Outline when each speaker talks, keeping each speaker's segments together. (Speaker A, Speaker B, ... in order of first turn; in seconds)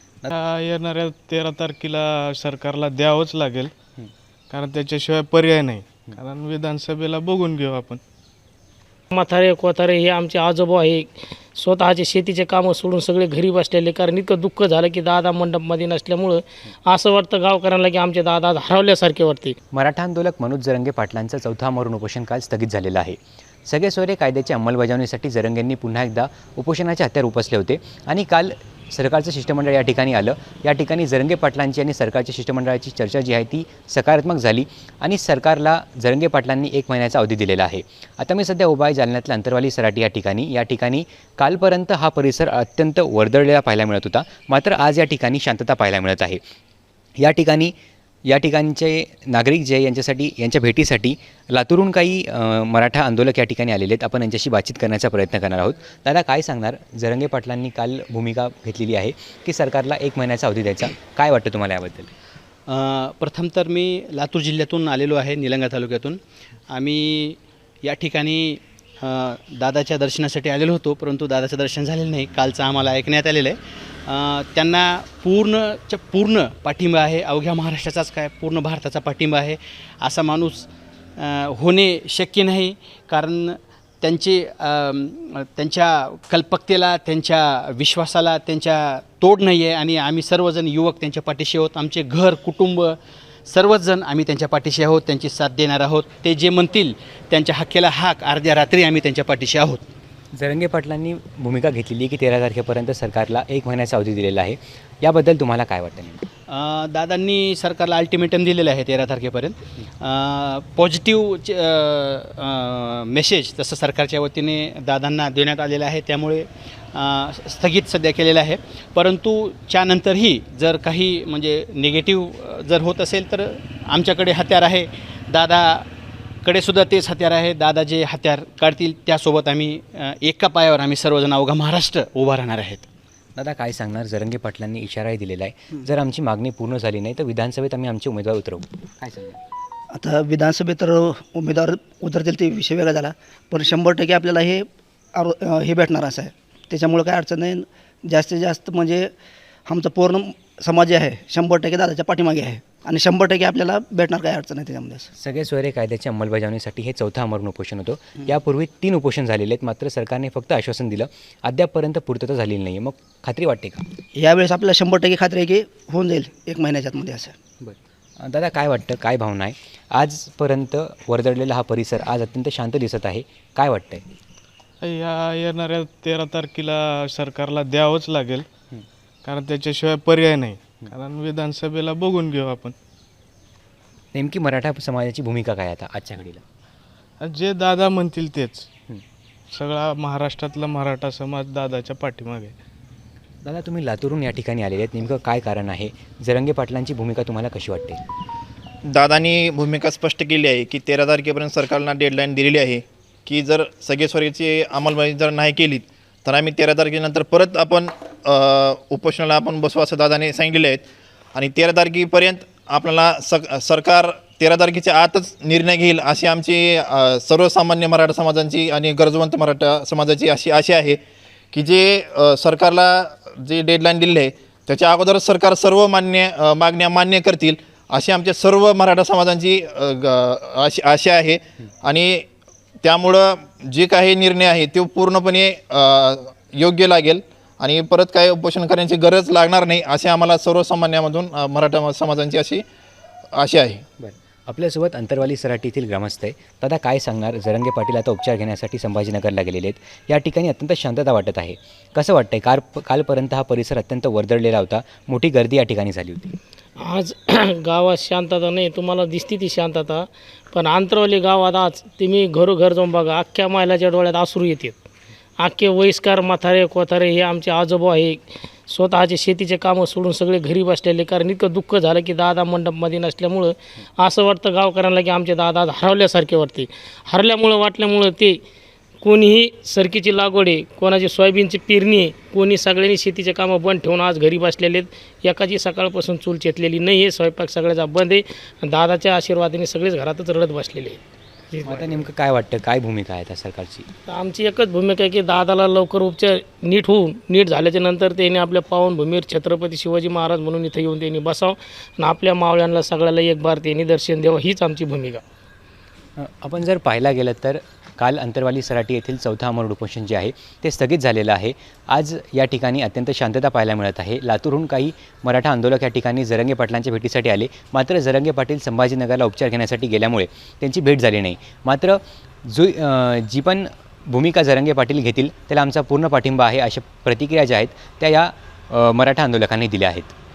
Speaker A: 0.3-3.7, 4.5-8.0, 174.8-178.5, 179.2-182.7, 187.2-188.7, 189.5-192.5
Speaker B: 9.1-19.6, 256.8-264.8, 265.4-278.4, 279.0-291.0, 291.5-292.0, 294.1-305.2
Speaker C: 19.7-46.4, 47.2-47.7, 48.3-62.1, 100.3-106.2, 133.3-139.4, 155.2-163.8, 167.6-174.0, 184.1-186.4, 193.4-198.0, 244.0-256.3, 291.6-293.9, 306.2-330.1
Speaker D: 62.7-66.2, 66.7-93.0, 93.5-99.8, 106.5-125.8, 126.4-132.8
Speaker E: 139.9-149.1, 149.7-155.1, 164.2-167.3
Speaker F: 198.9-221.0, 221.5-232.3, 232.8-242.6, 243.3-243.8